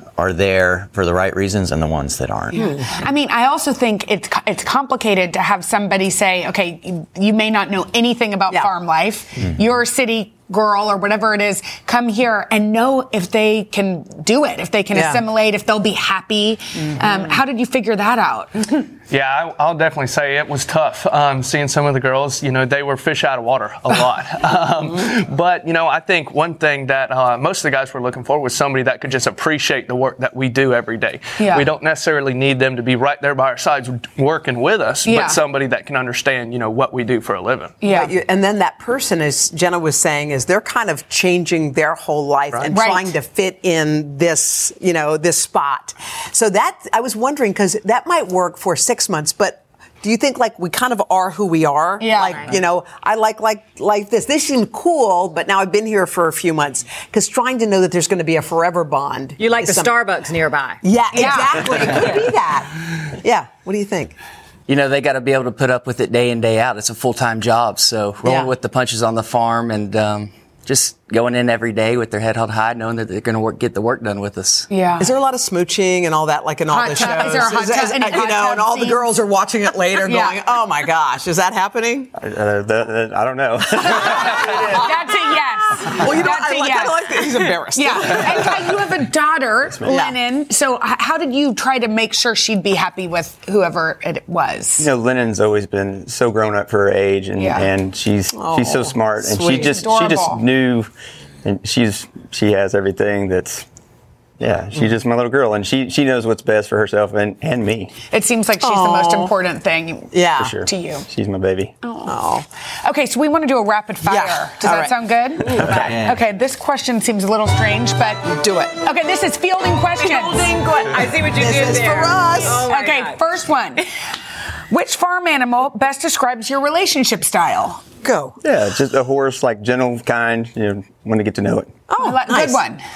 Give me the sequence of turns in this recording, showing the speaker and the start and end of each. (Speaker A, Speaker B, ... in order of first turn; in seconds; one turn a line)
Speaker A: 0.2-2.6
Speaker B: 2.5-2.9
Speaker C: 2.5-18.9
Speaker B: 14.9-15.2
Speaker D: 19.1-37.8
Speaker C: 31.4-31.7
Speaker C: 35.1-35.4
Speaker C: 37.8-38.1
Speaker B: 37.8-60.0
Speaker C: 42.7-43.1
Speaker C: 52.0-52.5
Speaker E: 59.4-60.8
Speaker B: 60.8-64.2
Speaker C: 61.1-61.8
Speaker E: 61.6-62.3
Speaker F: 64.7-74.7
Speaker B: 68.2-68.5
Speaker C: 74.7-75.1
Speaker B: 75.0-82.1
Speaker C: 76.7-79.0
Speaker C: 80.0-80.4
Speaker G: 82.2-84.9
Speaker B: 84.1-84.8
Speaker C: 84.1-94.9
Speaker B: 85.8-88.8
Speaker B: 89.8-90.2
Speaker G: 94.8-100.9
Speaker C: 97.4-97.7
Speaker B: 98.3-99.8
Speaker C: 99.5-100.4
Speaker G: 101.4-103.7
Speaker G: 104.4-108.0
Speaker C: 108.1-111.1
Speaker B: 108.6-109.3
Speaker B: 110.1-110.6
Speaker G: 110.4-111.7
Speaker C: 111.8-112.2
Speaker B: 112.0-112.5
Speaker C: 112.8-120.5
Speaker B: 114.1-115.9
Speaker E: 115.6-115.9
Speaker A: 115.7-116.2
Speaker B: 118.2-118.8
Speaker E: 120.0-123.2
Speaker B: 121.2-122.7
Speaker C: 122.5-123.8
Speaker C: 124.7-127.8
Speaker B: 128.0-128.4
Speaker G: 128.4-131.9
Speaker B: 131.9-132.6
Speaker C: 132.0-132.8